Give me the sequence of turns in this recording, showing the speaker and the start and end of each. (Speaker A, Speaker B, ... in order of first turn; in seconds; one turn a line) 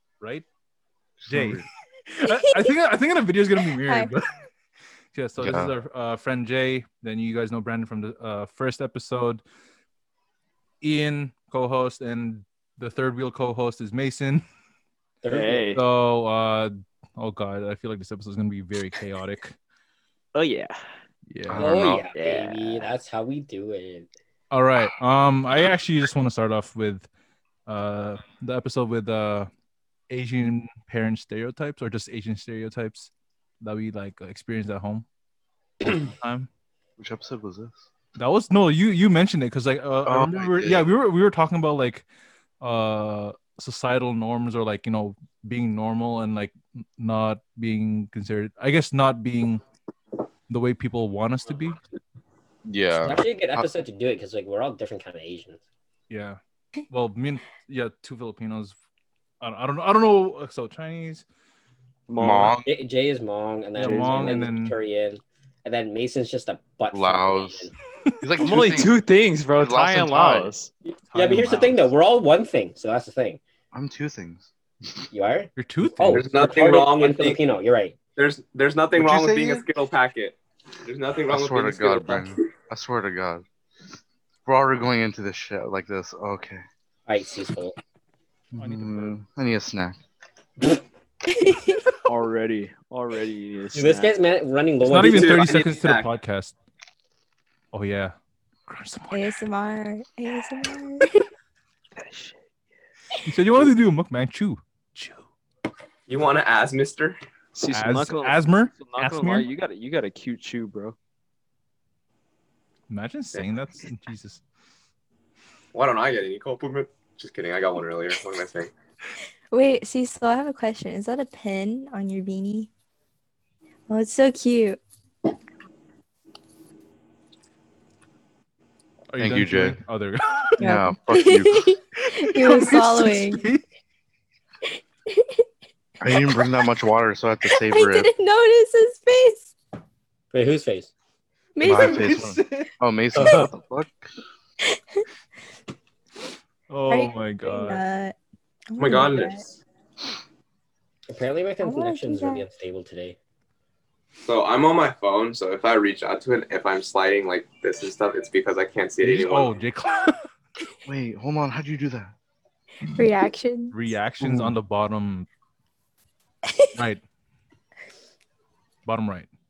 Speaker A: 0.2-0.5
Speaker B: 1.2-1.7
Speaker A: 1.3-4.3
Speaker C: 2.3-2.5
Speaker C: 3.8-4.1
Speaker A: 5.1-9.4
Speaker B: 5.4-5.7
Speaker A: 10.8-14.4
Speaker D: 15.2-15.7
Speaker E: 15.3-15.8
Speaker A: 15.8-19.6
Speaker E: 20.4-20.8
Speaker A: 21.3-21.7
Speaker B: 21.5-22.1
Speaker D: 21.6-24.1
Speaker E: 22.1-23.0
Speaker A: 24.5-27.1
Speaker A: 27.7-29.5
Speaker A: 30.1-33.1
Speaker A: 33.6-35.1
Speaker A: 35.9-36.5
Speaker B: 37.0-37.8
Speaker A: 38.2-42.0
Speaker B: 40.1-40.9
Speaker A: 42.6-49.6
Speaker A: 50.5-51.8
Speaker B: 52.7-53.7
Speaker D: 53.0-55.6
Speaker A: 56.1-56.4
Speaker A: 56.9-58.8
Speaker A: 59.4-61.2
Speaker E: 62.1-62.6
Speaker B: 62.2-62.7
Speaker D: 62.6-67.7
Speaker A: 63.8-64.8
Speaker E: 63.8-64.5
Speaker B: 66.9-67.7
Speaker B: 68.2-68.9
Speaker E: 68.4-70.7
Speaker B: 69.5-70.5
Speaker A: 71.1-71.9
Speaker D: 71.1-73.4
Speaker B: 73.7-75.0
Speaker D: 75.1-78.0
Speaker A: 75.6-76.3
Speaker F: 76.1-77.4
Speaker F: 78.2-82.5
Speaker B: 79.0-79.7
Speaker B: 81.3-83.5
Speaker B: 84.5-86.6
Speaker D: 87.1-87.8
Speaker A: 88.6-89.2
Speaker B: 88.6-90.0
Speaker C: 91.3-91.8
Speaker E: 92.1-94.2
Speaker D: 93.7-95.5
Speaker A: 94.8-96.5
Speaker F: 94.9-96.1
Speaker A: 97.7-98.2
Speaker A: 98.7-99.3
Speaker C: 99.1-101.2
Speaker E: 102.0-102.4
Speaker A: 103.2-105.2
Speaker F: 106.1-107.2
Speaker E: 107.5-111.0
Speaker A: 107.7-109.5
Speaker A: 112.9-114.4
Speaker F: 115.7-118.7
Speaker C: 119.5-122.7
Speaker C: 123.9-124.8
Speaker A: 129.1-130.5
Speaker B: 129.2-129.8
Speaker B: 130.6-131.7
Speaker C: 130.6-133.4
Speaker A: 132.0-133.6
Speaker C: 135.1-135.4
Speaker B: 136.0-138.1
Speaker C: 136.1-136.6
Speaker C: 137.4-139.5
Speaker D: 140.3-140.9
Speaker C: 141.6-142.3
Speaker B: 141.6-144.0
Speaker A: 141.7-142.7
Speaker A: 143.2-143.5
Speaker C: 144.8-145.0
Speaker A: 146.7-147.8
Speaker C: 146.9-148.2
Speaker C: 148.7-149.4
Speaker F: 148.8-149.6
Speaker D: 151.1-153.2
Speaker C: 151.6-152.5
Speaker F: 154.2-159.6
Speaker A: 159.0-160.2
Speaker B: 160.9-162.1
Speaker C: 162.9-163.8
Speaker A: 163.7-165.3
Speaker B: 164.2-164.5
Speaker A: 166.8-167.0
Speaker A: 168.8-169.3